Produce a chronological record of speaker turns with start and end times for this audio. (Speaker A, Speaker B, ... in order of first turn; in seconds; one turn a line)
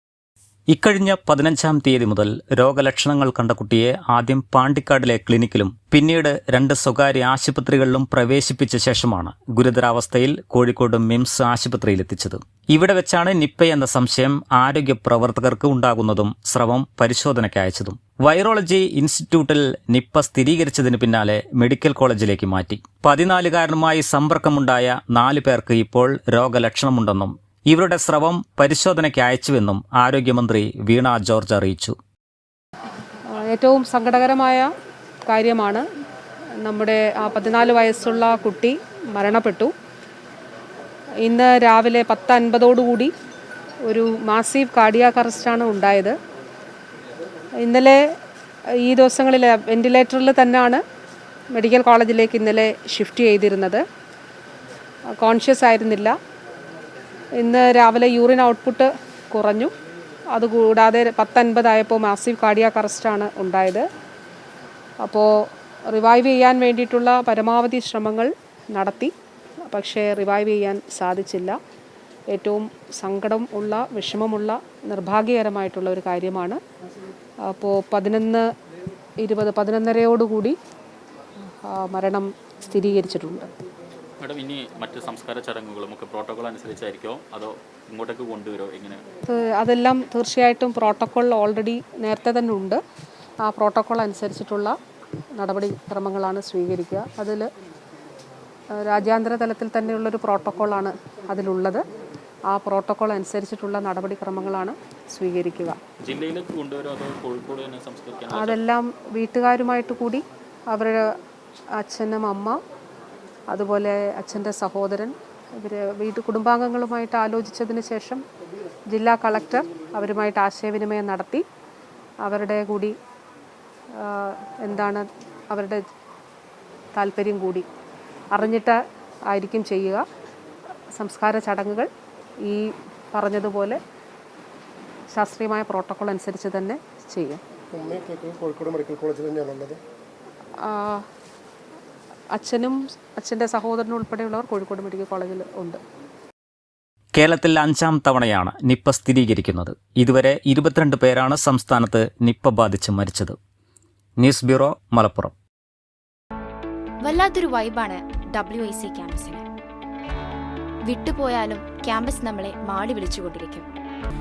Speaker A: 0.7-31.9
Speaker B: 33.3-34.7
Speaker B: 35.2-35.8
Speaker B: 36.6-39.7
Speaker B: 41.2-43.1
Speaker B: 43.9-46.1
Speaker B: 47.6-48.0
Speaker B: 48.8-50.8
Speaker B: 51.5-53.8
Speaker B: 55.2-56.1
Speaker B: 57.4-59.7
Speaker B: 60.3-63.8
Speaker B: 65.0-69.1
Speaker B: 69.7-71.6
Speaker B: 72.3-76.6
Speaker B: 77.4-78.5
Speaker B: 79.2-80.5
Speaker B: 81.6-83.5
Speaker C: 84.2-89.0
Speaker B: 89.2-92.8
Speaker B: 93.4-94.8
Speaker B: 95.3-97.5
Speaker B: 98.7-101.8
Speaker B: 102.5-105.8
Speaker C: 106.0-108.6
Speaker B: 108.3-111.0
Speaker B: 111.8-112.6
Speaker B: 113.5-118.2
Speaker B: 118.9-121.4
Speaker B: 122.2-122.9
Speaker B: 124.0-125.8
Speaker B: 126.9-127.7
Speaker B: 128.3-130.0
Speaker B: 130.9-131.9
Speaker B: 132.4-133.8
Speaker B: 135.1-137.4
Speaker D: 137.7-139.8
Speaker B: 140.6-141.0
Speaker B: 142.3-145.8
Speaker A: 147.1-153.3
Speaker A: 154.2-155.3
Speaker E: 157.0-159.4
Speaker E: 160.8-163.7